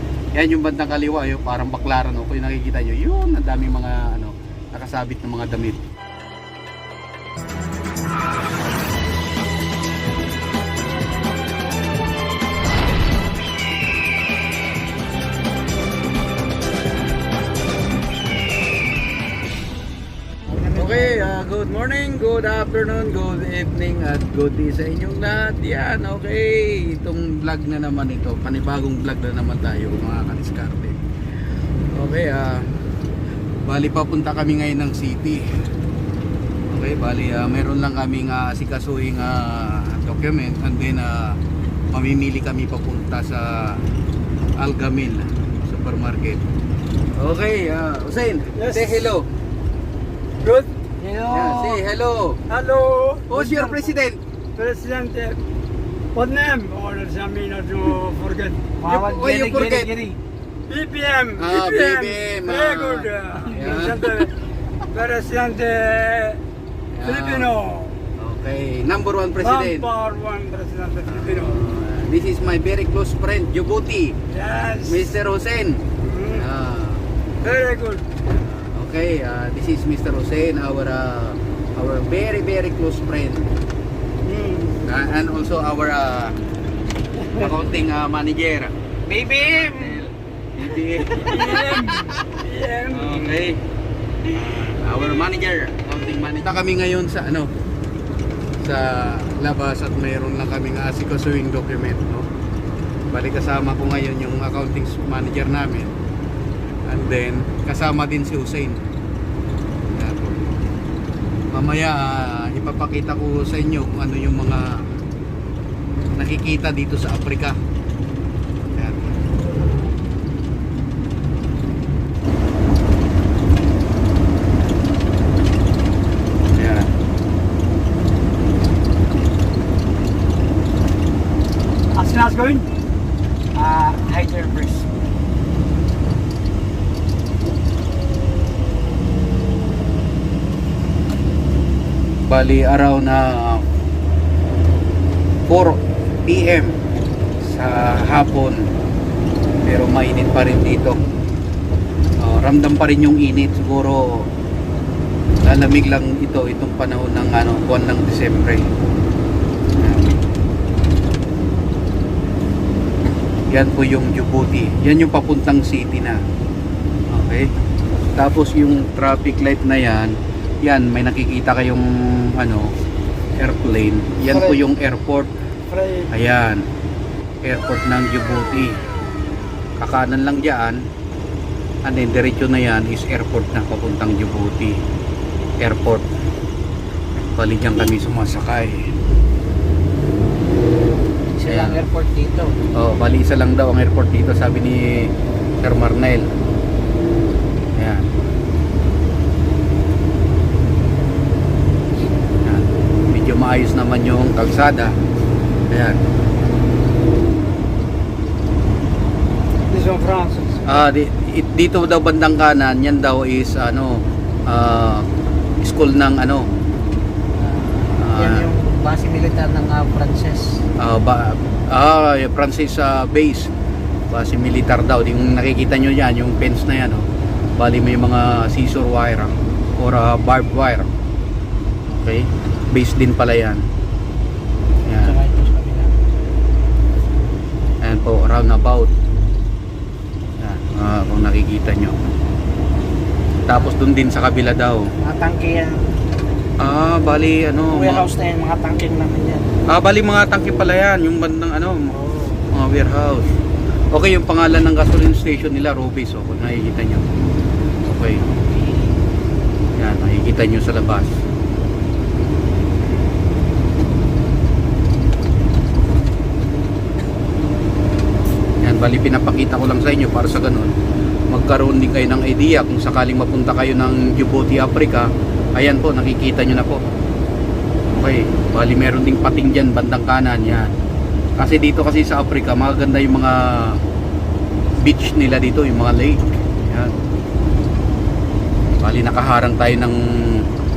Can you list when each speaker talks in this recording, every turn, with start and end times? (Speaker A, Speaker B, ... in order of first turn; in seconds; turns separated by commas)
Speaker A: 0.3-5.9, Speaker B: 20.5-21.3, Speaker A: 20.7-31.0, Speaker A: 31.9-32.7, Speaker A: 33.6-35.5, Speaker A: 36.7-41.4, Speaker A: 41.9-43.8, Speaker A: 44.6-46.4, Speaker A: 47.2-49.3, Speaker C: 48.5-49.1, Speaker C: 50.4-50.7, Speaker B: 51.0-51.8, Speaker A: 51.3-52.4, Speaker C: 52.5-53.9, Speaker A: 53.3-54.2, Speaker C: 54.5-55.4, Speaker C: 56.1-58.8, Speaker B: 58.8-60.2, Speaker A: 58.8-59.9, Speaker C: 60.7-64.3, Speaker A: 61.4-64.1, Speaker C: 64.9-66.4, Speaker A: 66.9-67.5, Speaker C: 67.0-68.0, Speaker A: 68.2-69.9, Speaker C: 69.4-71.6, Speaker A: 71.0-74.2, Speaker C: 74.3-75.1, Speaker A: 74.8-77.0, Speaker C: 76.0-76.5, Speaker C: 77.4-78.1, Speaker A: 78.2-83.5, Speaker C: 84.2-84.8, Speaker A: 84.8-86.4, Speaker A: 87.2-88.7, Speaker B: 89.1-90.1, Speaker A: 89.3-92.3, Speaker B: 90.9-91.3, Speaker C: 91.2-93.4, Speaker A: 92.9-93.6, Speaker A: 94.3-97.5, Speaker A: 98.6-102.3, Speaker A: 103.1-105.9, Speaker A: 106.8-108.8, Speaker A: 109.9-110.4, Speaker A: 111.5-115.0, Speaker A: 116.2-117.6, Speaker A: 118.7-119.1, Speaker A: 126.5-126.9, Speaker C: 131.9-132.7, Speaker B: 133.5-134.8, Speaker A: 142.3-143.6, Speaker A: 145.5-146.8, Speaker A: 147.4-148.7, Speaker A: 149.6-151.0, Speaker A: 152.2-154.3, Speaker A: 155.4-158.7, Speaker A: 159.8-160.2, Speaker A: 163.5-166.2, Speaker A: 167.1-167.5, Speaker A: 168.2-172.7, Speaker A: 173.4-175.3, Speaker C: 174.3-174.6, Speaker C: 175.7-176.1, Speaker A: 176.1-176.7, Speaker A: 177.4-178.8, Speaker A: 179.8-180.8, Speaker A: 181.8-184.8, Speaker A: 185.6-186.1, Speaker A: 187.3-188.9, Speaker B: 191.3-192.6, Speaker A: 191.4-191.8, Speaker A: 192.7-196.3, Speaker A: 197.8-198.1, Speaker A: 202.4-204.9, Speaker A: 205.7-206.0, Speaker C: 209.7-210.8, Speaker A: 210.6-215.1, Speaker A: 215.6-216.4, Speaker B: 217.4-220.6, Speaker A: 217.9-218.5, Speaker A: 220.8-223.5, Speaker A: 224.1-230.9, Speaker A: 231.9-233.6, Speaker A: 234.9-235.2, Speaker B: 235.0-235.9, Speaker A: 237.8-238.9, Speaker A: 240.4-242.1, Speaker A: 243.5-244.9, Speaker B: 245.0-245.9, Speaker A: 246.6-248.1, Speaker B: 247.7-249.5, Speaker A: 249.7-251.9, Speaker B: 251.9-252.4, Speaker A: 252.5-253.3, Speaker A: 253.9-257.1, Speaker A: 257.9-258.2, Speaker A: 259.8-261.2, Speaker A: 268.6-270.7, Speaker A: 271.3-276.8, Speaker A: 277.9-280.7, Speaker A: 281.4-283.8, Speaker A: 284.8-286.9, Speaker A: 288.8-290.4